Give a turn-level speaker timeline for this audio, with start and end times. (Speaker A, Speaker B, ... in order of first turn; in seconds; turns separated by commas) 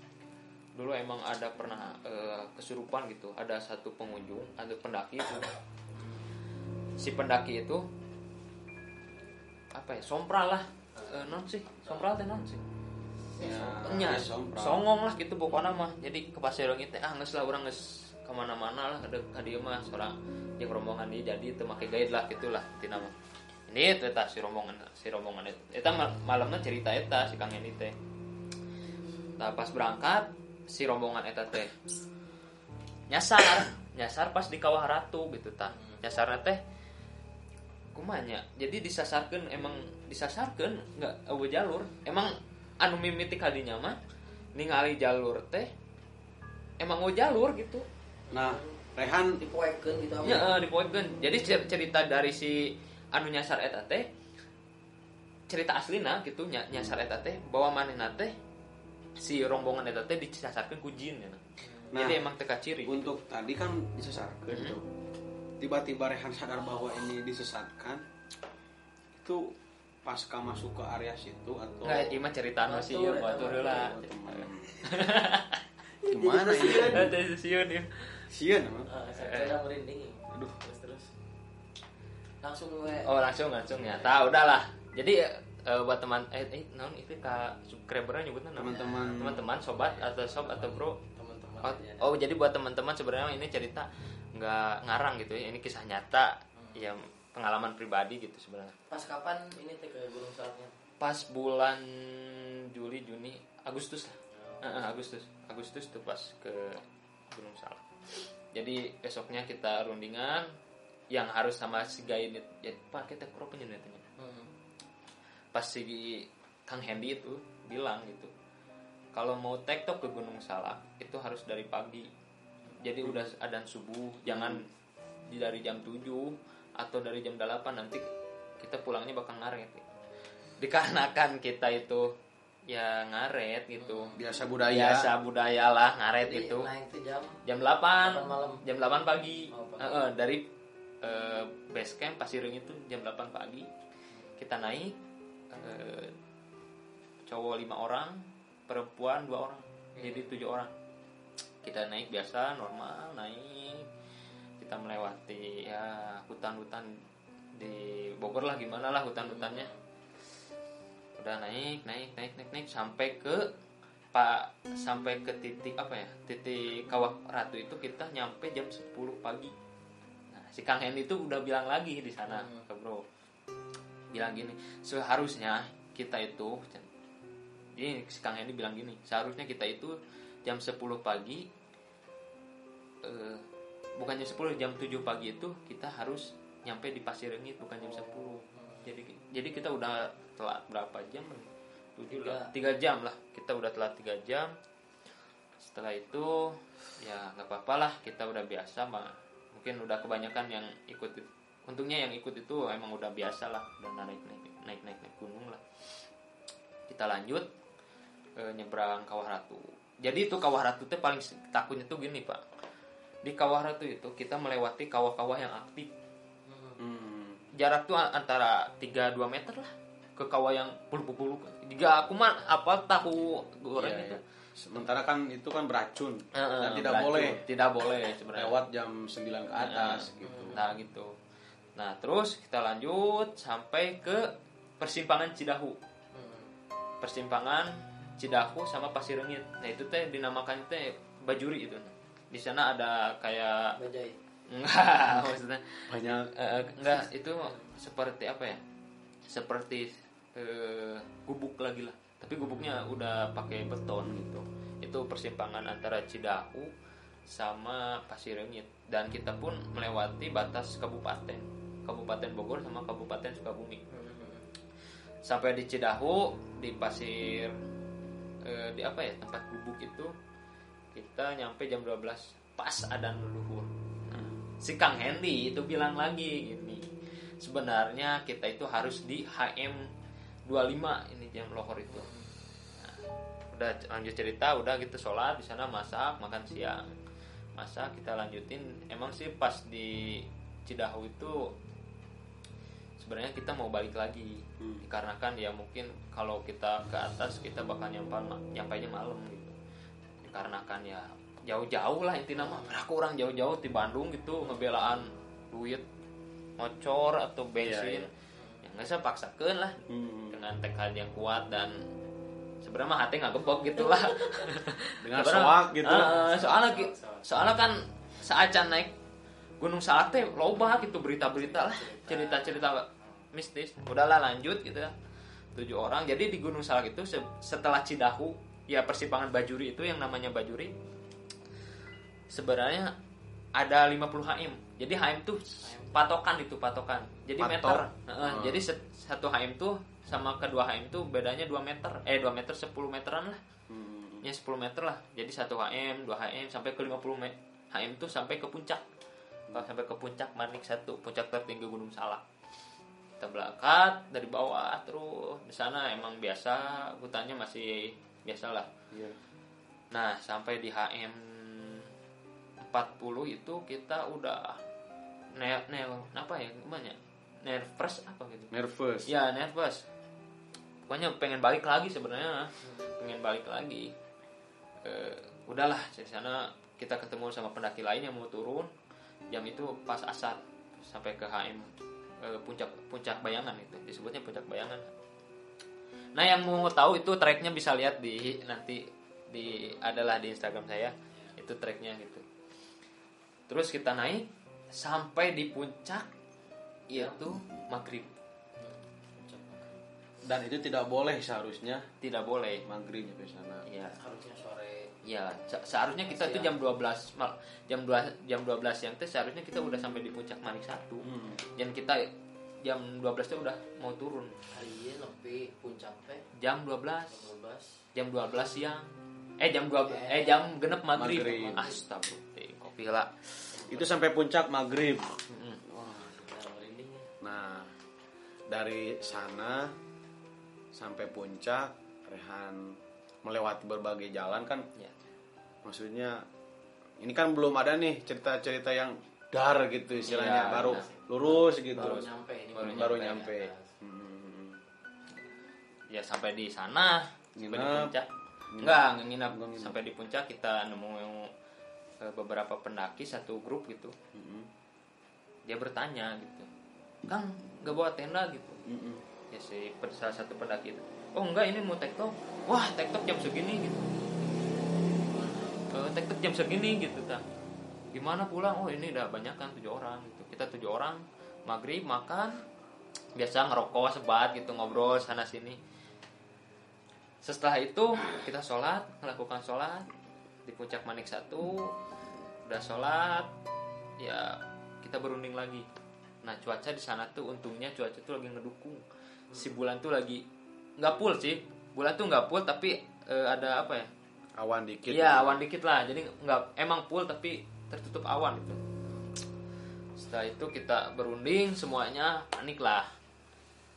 Speaker A: 0.7-5.5, Speaker B: 5.9-6.2, Speaker A: 7.0-7.9, Speaker A: 9.7-12.6, Speaker C: 13.4-14.8, Speaker B: 13.4-13.8, Speaker A: 13.8-23.1, Speaker A: 23.7-27.9, Speaker A: 29.4-31.7, Speaker A: 33.1-36.6, Speaker B: 35.7-36.0, Speaker A: 37.9-44.0, Speaker A: 44.5-45.7, Speaker A: 46.8-47.9, Speaker B: 48.3-50.5, Speaker C: 48.3-49.4, Speaker A: 50.2-54.1, Speaker A: 55.5-58.3, Speaker A: 59.2-61.4, Speaker B: 61.6-62.0, Speaker C: 61.9-62.3, Speaker A: 61.9-63.1, Speaker C: 62.8-64.8, Speaker A: 64.5-64.8, Speaker C: 65.6-68.0, Speaker C: 69.1-69.5, Speaker C: 70.0-72.2, Speaker A: 71.8-75.6, Speaker B: 72.7-73.9, Speaker C: 73.7-74.9, Speaker B: 76.0-77.1, Speaker C: 76.1-77.1, Speaker A: 76.6-78.2, Speaker C: 78.3-78.9, Speaker B: 78.9-81.1, Speaker A: 79.2-79.6, Speaker B: 82.4-84.2, Speaker A: 83.0-91.0, Speaker C: 88.5-89.5, Speaker B: 88.7-89.2, Speaker B: 89.7-92.1, Speaker A: 91.6-98.8, Speaker B: 96.6-96.9, Speaker B: 98.9-100.7, Speaker A: 101.0-110.5, Speaker B: 104.4-104.7, Speaker A: 111.1-114.0, Speaker B: 114.2-114.5, Speaker A: 115.5-118.3, Speaker A: 119.1-122.1, Speaker A: 122.8-124.7, Speaker C: 124.2-124.6, Speaker A: 125.3-129.8, Speaker A: 130.6-132.1, Speaker A: 132.7-134.1, Speaker B: 133.8-134.2, Speaker C: 134.2-135.1, Speaker A: 134.7-136.7, Speaker B: 136.2-137.4, Speaker A: 137.4-140.5, Speaker B: 138.0-138.6, Speaker B: 139.5-140.0, Speaker A: 141.0-143.7, Speaker A: 144.4-145.0, Speaker A: 145.5-146.1, Speaker A: 147.2-150.7, Speaker B: 149.9-150.3, Speaker A: 151.6-153.9, Speaker A: 154.6-157.0, Speaker A: 157.6-159.7, Speaker B: 159.2-159.8, Speaker A: 161.2-163.5, Speaker A: 164.1-169.5, Speaker A: 170.3-173.0, Speaker B: 172.3-172.7, Speaker A: 174.1-176.9, Speaker A: 177.8-181.5, Speaker A: 183.0-183.4, Speaker A: 184.0-194.5, Speaker B: 187.8-188.9, Speaker B: 192.1-192.5, Speaker A: 195.6-205.6, Speaker A: 206.9-207.5, Speaker A: 208.4-212.4, Speaker A: 213.2-215.9, Speaker B: 216.5-216.8, Speaker C: 216.8-217.4, Speaker A: 217.6-224.2, Speaker C: 223.8-227.4, Speaker A: 226.3-228.6, Speaker C: 228.3-230.6, Speaker A: 229.6-231.1, Speaker B: 230.2-230.8, Speaker A: 231.8-235.8, Speaker B: 236.1-236.5, Speaker A: 237.0-243.8, Speaker B: 243.8-244.2, Speaker A: 244.5-248.6, Speaker C: 245.9-246.3, Speaker A: 249.3-256.7, Speaker A: 257.3-263.8, Speaker B: 263.9-264.4, Speaker A: 265.2-267.5, Speaker A: 268.4-270.1, Speaker A: 270.9-276.8, Speaker C: 274.1-274.4, Speaker A: 277.4-279.9, Speaker A: 280.4-282.1, Speaker B: 281.9-282.3, Speaker A: 282.8-286.9, Speaker A: 287.6-291.5, Speaker A: 293.0-299.6, Speaker C: 294.6-294.8, Speaker A: 300.2-305.8, Speaker B: 302.3-302.8, Speaker A: 306.6-308.1, Speaker C: 307.6-308.1, Speaker B: 308.4-308.6, Speaker A: 308.6-311.8, Speaker C: 309.9-310.4, Speaker A: 312.6-318.9, Speaker B: 313.9-314.5, Speaker C: 315.0-316.2, Speaker B: 315.9-317.3, Speaker A: 319.6-324.9, Speaker B: 320.8-322.7, Speaker A: 325.5-330.7, Speaker A: 332.3-332.9, Speaker A: 333.6-343.4, Speaker B: 335.6-336.1, Speaker C: 337.4-338.6, Speaker C: 343.7-344.2, Speaker A: 344.2-348.8, Speaker A: 349.5-352.2, Speaker A: 353.2-358.7, Speaker C: 358.9-359.2, Speaker A: 359.9-361.9, Speaker A: 362.6-364.6, Speaker A: 365.3-368.5, Speaker C: 368.5-369.1, Speaker A: 369.1-369.9, Speaker A: 370.9-373.9, Speaker B: 372.6-372.9, Speaker A: 374.8-378.7, Speaker A: 379.3-381.7, Speaker A: 382.2-384.9, Speaker A: 386.1-392.2, Speaker B: 389.4-389.8, Speaker A: 393.5-396.1, Speaker A: 396.9-398.1, Speaker B: 396.9-397.2, Speaker B: 398.6-399.8, Speaker C: 400.2-401.9, Speaker A: 402.0-402.6, Speaker C: 402.6-403.6, Speaker A: 403.7-404.0, Speaker B: 404.0-404.9, Speaker A: 405.0-412.1, Speaker B: 406.1-406.6, Speaker C: 411.0-411.4, Speaker A: 412.6-414.4, Speaker B: 414.5-416.3, Speaker A: 416.4-417.3, Speaker B: 417.0-417.8, Speaker A: 417.9-423.8, Speaker B: 419.9-420.5, Speaker C: 420.9-421.7, Speaker B: 421.2-421.8, Speaker C: 423.6-425.2, Speaker A: 425.3-425.8, Speaker C: 425.7-426.2, Speaker B: 426.1-427.1, Speaker C: 427.2-427.7, Speaker C: 428.5-429.7, Speaker C: 430.7-434.6, Speaker C: 435.6-436.2, Speaker C: 437.0-442.0, Speaker B: 440.0-443.7, Speaker A: 440.0-440.9, Speaker A: 441.7-443.1, Speaker C: 442.6-444.6, Speaker A: 445.9-451.3, Speaker C: 447.4-447.9, Speaker C: 448.5-449.8, Speaker A: 452.0-453.9, Speaker C: 454.1-454.5, Speaker A: 455.5-456.5, Speaker A: 457.0-458.6, Speaker C: 458.6-459.0, Speaker A: 459.3-463.9, Speaker A: 465.6-467.2, Speaker A: 467.9-472.4, Speaker A: 473.1-475.6, Speaker A: 477.2-479.9, Speaker A: 480.4-481.8, Speaker A: 482.4-483.3, Speaker A: 484.0-485.6, Speaker A: 486.2-488.8, Speaker A: 489.3-490.2, Speaker A: 490.8-493.9, Speaker C: 494.4-495.4, Speaker A: 494.9-498.6, Speaker A: 500.0-502.9